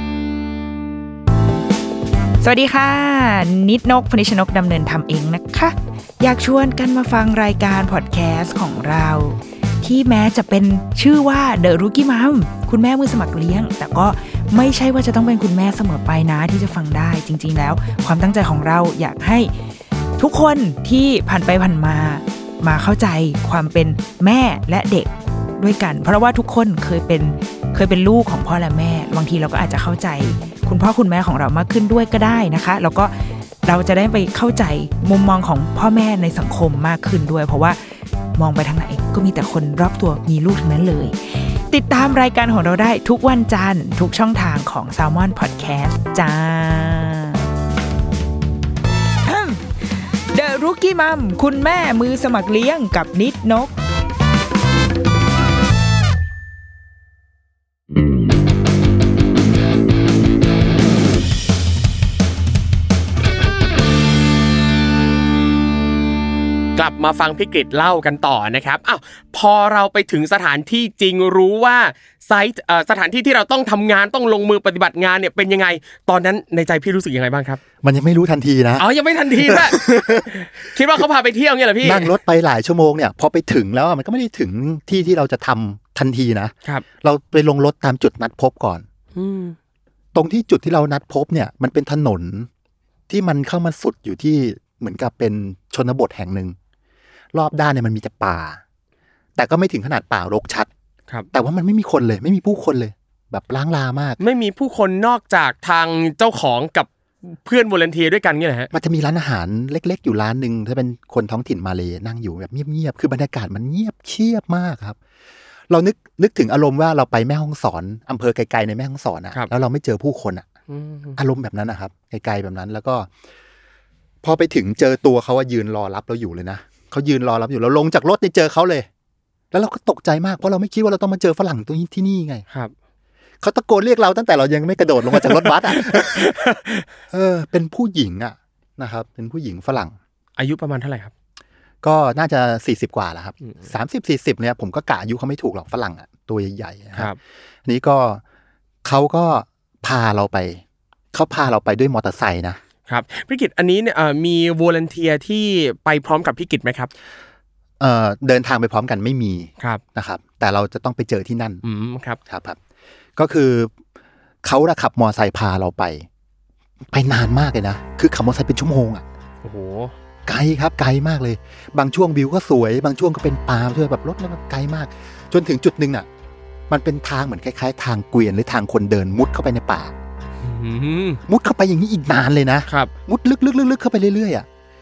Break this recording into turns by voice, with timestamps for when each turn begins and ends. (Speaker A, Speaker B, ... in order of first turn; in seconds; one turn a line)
Speaker A: 2.4-19.5
Speaker A: 20.2-33.1
Speaker A: 33.6-37.8
Speaker A: 38.3-47.5
Speaker A: 49.2-49.8
Speaker A: 50.3-53.7
Speaker B: 66.8-77.6
Speaker C: 77.8-78.8
Speaker B: 78.8-82.1
Speaker C: 79.4-80.3
Speaker C: 81.8-88.8
Speaker B: 89.1-89.5
Speaker C: 90.1-92.5
Speaker C: 93.1-96.5
Speaker C: 97.3-98.6
Speaker C: 99.4-100.7
Speaker C: 101.3-104.2
Speaker B: 104.2-108.7
Speaker C: 108.7-115.0
Speaker C: 115.7-120.5
Speaker B: 120.7-121.2
Speaker C: 121.2-123.1
Speaker C: 124.2-128.9
Speaker C: 129.5-132.4
Speaker C: 133.4-136.3
Speaker B: 135.1-136.8
Speaker C: 137.1-139.9
Speaker B: 140.4-141.1
Speaker C: 141.8-147.1
Speaker C: 147.7-148.2
Speaker C: 148.8-150.6
Speaker C: 151.1-152.6
Speaker B: 152.9-156.9
Speaker C: 157.8-161.6
Speaker B: 161.6-162.2
Speaker C: 162.3-162.6
Speaker C: 163.2-163.7
Speaker C: 164.4-166.1
Speaker C: 166.9-169.0
Speaker B: 169.4-169.9
Speaker C: 170.3-176.1
Speaker C: 176.7-179.9
Speaker B: 180.4-181.2
Speaker C: 181.3-184.4